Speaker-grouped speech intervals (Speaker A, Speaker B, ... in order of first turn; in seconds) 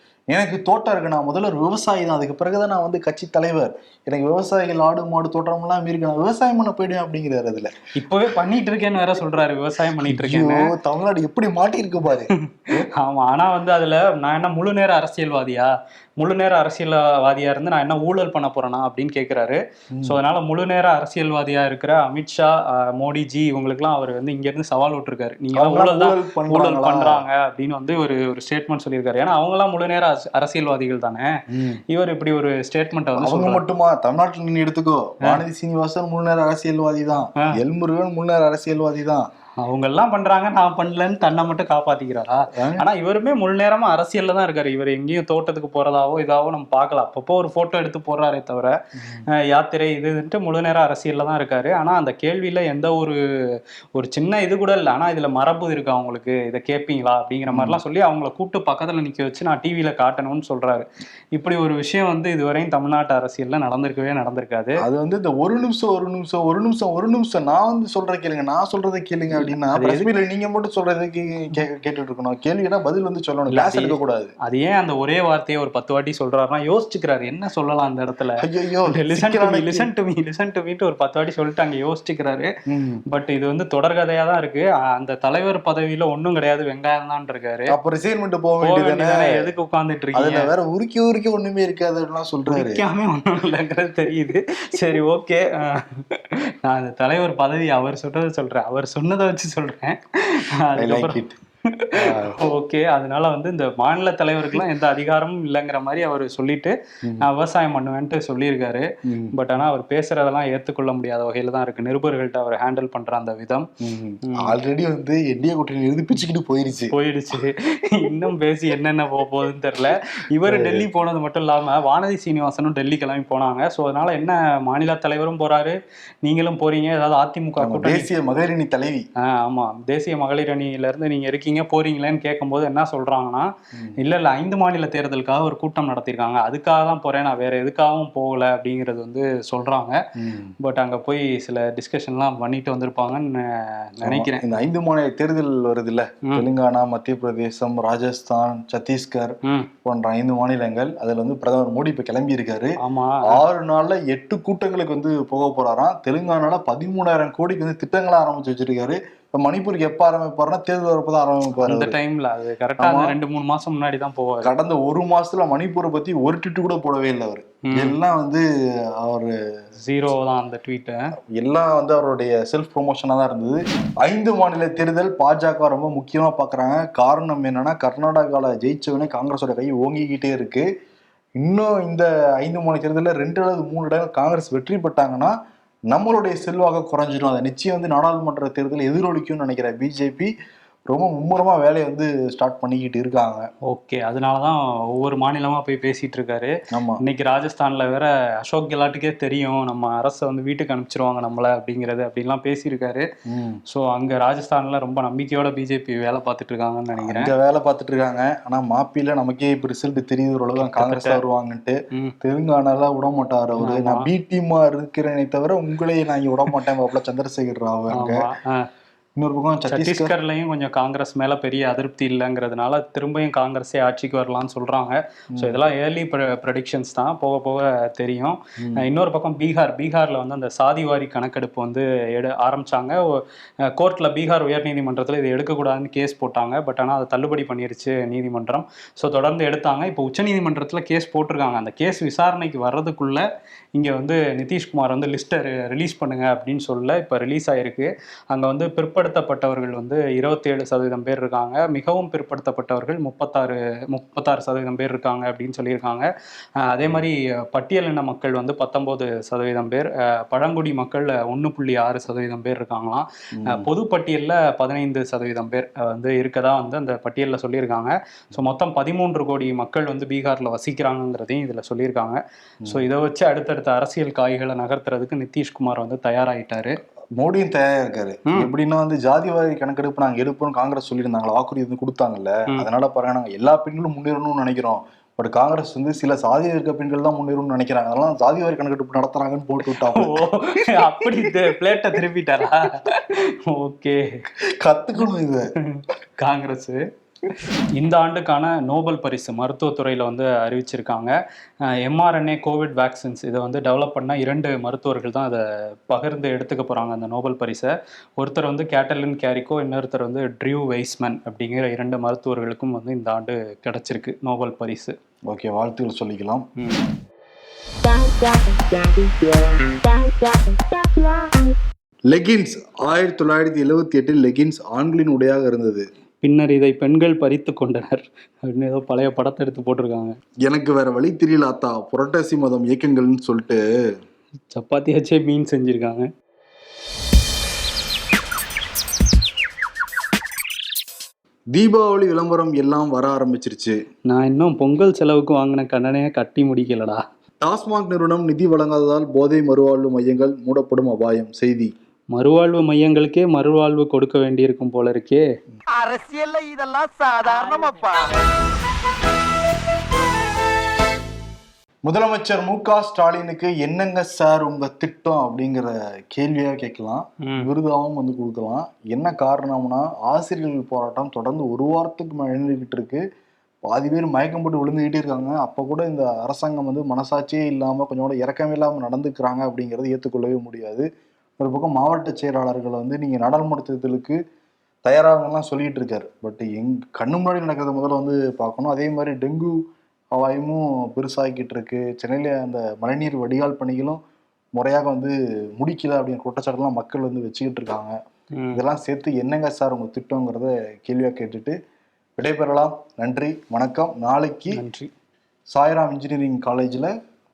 Speaker A: 0.3-7.7, 10.0-12.9, 25.6-27.2, 31.5-31.8, 33.2-39.3, 42.5-42.9, 49.0-49.3, 57.5-57.8, 64.8-74.3, 78.4-79.9, 82.7-83.0, 87.7-89.5, 90.2-92.8, 100.8-101.3, 102.0-102.4, 109.1-109.3, 113.8-116.9, 120.5-120.9, 127.6-129.1, 140.2-140.5, 144.1-149.3, 149.8-152.7, 153.3-162.0, 162.8-163.2, 164.4-168.4, 169.0-169.3, 171.3-180.7, 181.4-185.3, 185.9-190.3, 190.9-193.5, 196.7-197.0, 203.3-203.6, 207.0-218.2, 219.2-220.1, 263.4-263.7, 277.2-291.3, 294.6-295.5, 315.3-316.4, 322.1-325.9, 330.5-333.6, 341.5-343.8, 347.4-351.7, 361.9-373.0, 373.6-380.9, 381.4-384.2, 384.9-389.6, 390.1-394.0, 394.6-398.0, 398.5-401.6, 402.2-404.6, 405.5-406.9
Speaker B: 8.0-10.6, 12.3-31.3, 31.9-33.6, 39.6-48.7, 49.3-64.8, 69.7-70.1, 73.5-82.5, 83.1-87.8, 88.6-90.5, 92.5-113.7, 114.2-114.5, 116.9-128.1, 129.2-140.0, 140.6-144.5, 152.8-153.4, 161.6-164.5, 167.7-168.0, 169.8-171.1, 193.7-203.1, 203.7-207.3, 210.6-211.2, 213.6-214.1, 217.9-218.7, 219.7-256.1, 256.6-276.8, 289.7-294.2, 295.6-301.1, 301.7-315.0, 316.6-316.8, 326.2-330.2, 334.5-336.1, 344.1-347.0, 352.1-355.2, 367.2-367.5, 398.4-398.6, 404.5-404.9
Speaker C: 355.9-357.8